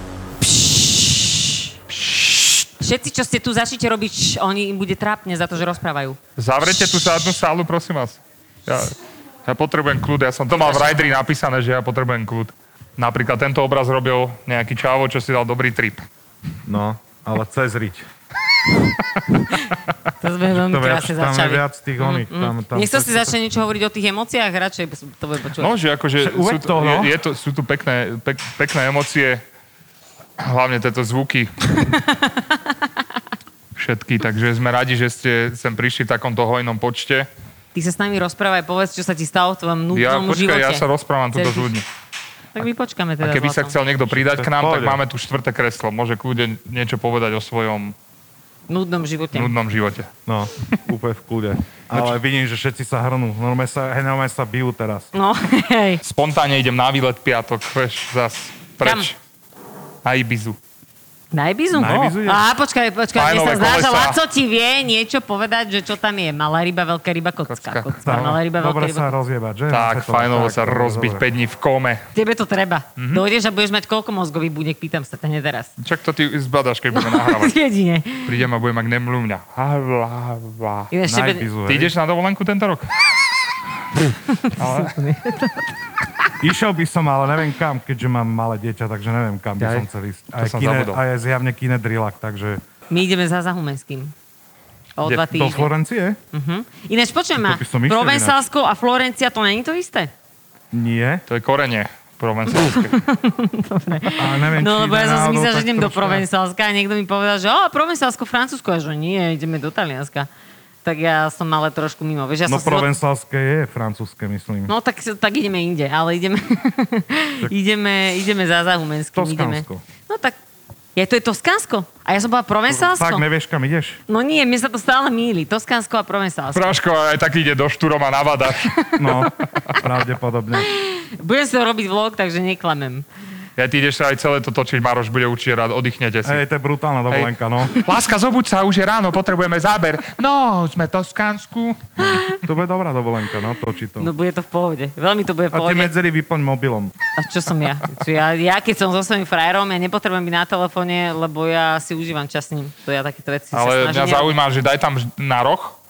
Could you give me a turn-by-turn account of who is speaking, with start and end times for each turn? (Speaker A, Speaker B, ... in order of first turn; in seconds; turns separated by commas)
Speaker A: 0.5-1.1, Speaker A: 2.8-6.2, Speaker B: 6.4-8.9, Speaker B: 9.4-16.1, Speaker A: 10.5-11.1, Speaker C: 16.7-18.0, Speaker A: 20.2-25.7, Speaker C: 20.5-23.4, Speaker B: 25.6-29.4, Speaker C: 26.2-27.1, Speaker B: 30.4-31.8, Speaker A: 32.0-32.4, Speaker B: 33.8-37.3, Speaker A: 37.7-41.7, Speaker B: 39.9-41.9, Speaker A: 42.5-43.8, Speaker B: 43.2-47.9, Speaker C: 44.1-45.0, Speaker A: 48.7-49.5, Speaker B: 49.3-50.1, Speaker C: 50.2-55.1, Speaker A: 55.1-56.0, Speaker B: 56.0-59.1, Speaker A: 58.8-59.1, Speaker B: 60.0-60.6, Speaker A: 61.3-69.2, Speaker C: 61.7-62.4, Speaker B: 63.1-64.2, Speaker B: 67.5-68.4, Speaker C: 68.0-71.2, Speaker B: 69.7-72.0, Speaker A: 72.1-75.7, Speaker B: 73.0-73.2, Speaker B: 75.8-77.5, Speaker A: 76.9-78.3, Speaker B: 78.2-80.9, Speaker A: 80.9-81.5, Speaker C: 81.1-81.9, Speaker B: 81.7-82.9, Speaker A: 84.3-85.6, Speaker B: 84.6-84.9, Speaker C: 86.4-92.6, Speaker B: 89.6-91.0, Speaker A: 92.9-94.1, Speaker A: 95.0-95.7, Speaker C: 95.2-96.2, Speaker A: 96.3-100.1, Speaker C: 97.4-98.4, Speaker C: 100.7-101.2, Speaker B: 101.3-103.0, Speaker A: 102.5-110.3, Speaker C: 104.2-106.2, Speaker A: 110.8-112.9, Speaker C: 112.5-114.7, Speaker A: 114.7-120.3, Speaker C: 119.1-119.8, Speaker A: 121.0-123.2, Speaker C: 122.7-124.0, Speaker A: 124.1-126.8, Speaker B: 126.5-129.2, Speaker C: 129.0-130.7, Speaker A: 130.6-133.0, Speaker B: 133.6-136.4, Speaker C: 136.2-137.7, Speaker B: 137.1-142.3, Speaker C: 142.3-144.1, Speaker A: 144.0-145.9, Speaker C: 145.5-146.9, Speaker A: 147.2-154.3, Speaker B: 153.5-155.8